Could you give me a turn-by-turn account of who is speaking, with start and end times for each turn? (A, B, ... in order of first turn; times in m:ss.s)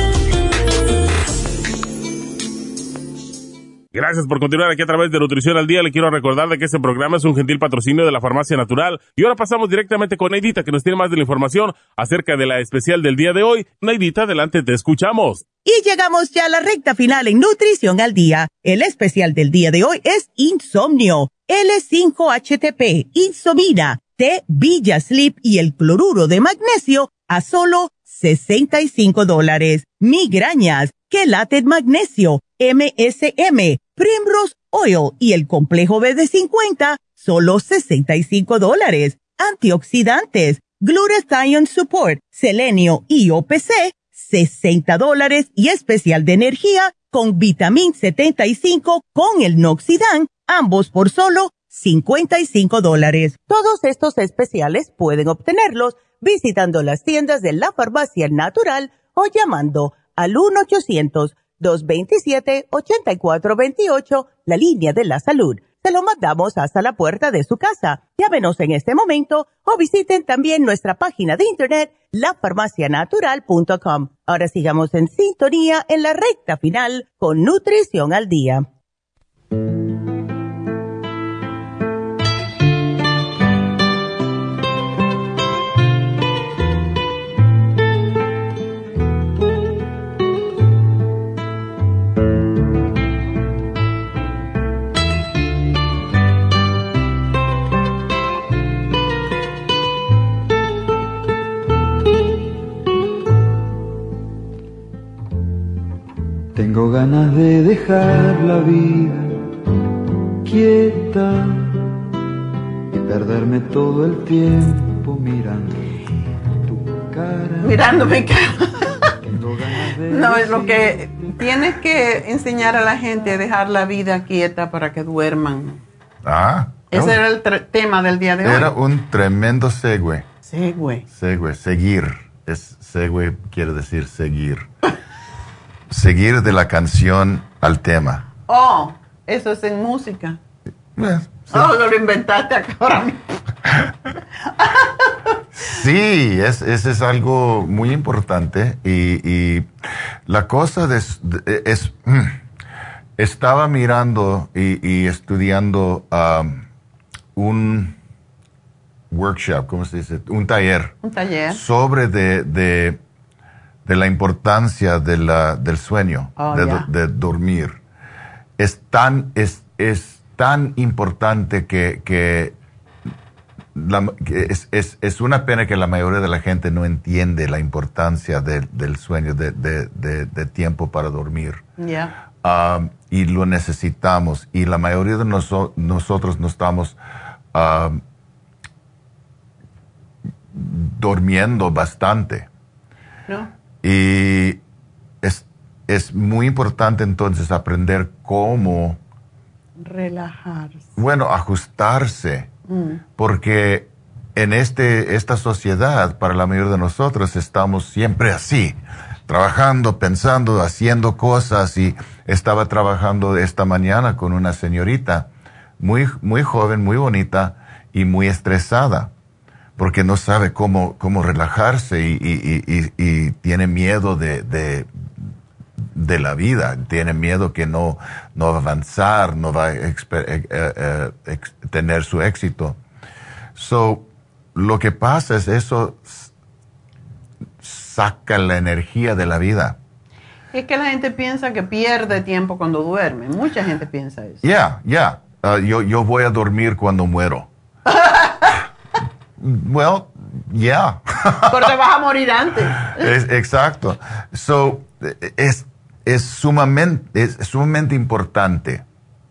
0:03.9-0:15.4 A
0:15.6-1:18.7 B
1:46.5-1:49.5 C
1:50.4-1:51.9 C
1:52.9-1:55.8 C
1:56.6-1:58.2 C
1:57.6-1:59.1 D
1:59.2-2:01.4 C
2:00.1-2:05.8 D
2:06.2-2:07.2 E
2:06.9-2:08.7 D
2:08.4-2:10.2 E
2:10.5-2:11.0 D
2:11.1-2:14.7 E
2:15.9-2:18.2 E
2:18.5-2:20.4 D
2:21.0-2:21.7 E
2:21.5-2:23.2 D
2:24.6-2:25.1 D
2:25.6-2:29.7 E
2:30.2-2:32.4 E
2:33.2-2:36.6 E
2:37.4-2:38.0 E
2:39.1-2:41.0 E
2:41.0-2:41.6 D
2:41.5-2:43.0 E
2:43.8-2:47.8 E
2:46.4-2:46.9 D
2:48.6-2:52.5 E
2:53.7-3:01.6 E
3:01.8-3:02.1 D
3:02.4-3:07.0 E
3:07.5-3:08.0 E
3:10.5-3:12.5 E
3:13.8-3:14.6 E
3:15.2-3:19.0 E
3:19.8-3:20.9 D
3:21.0-3:22.5 E
3:22.7-3:23.0 D
3:23.2-3:35.3 E
3:35.8-3:39.1 E
3:39.8-3:44.9 E
3:45.9-3:52.8 E
3:53.5-3:56.3 E
3:57.6-3:59.8 E
4:00.5-4:04.4 D
4:04.4-4:07.5 E
4:08.0-4:08.5 D
4:09.4-4:11.7 E
4:11.5-4:13.1 D
4:12.9-4:18.8 E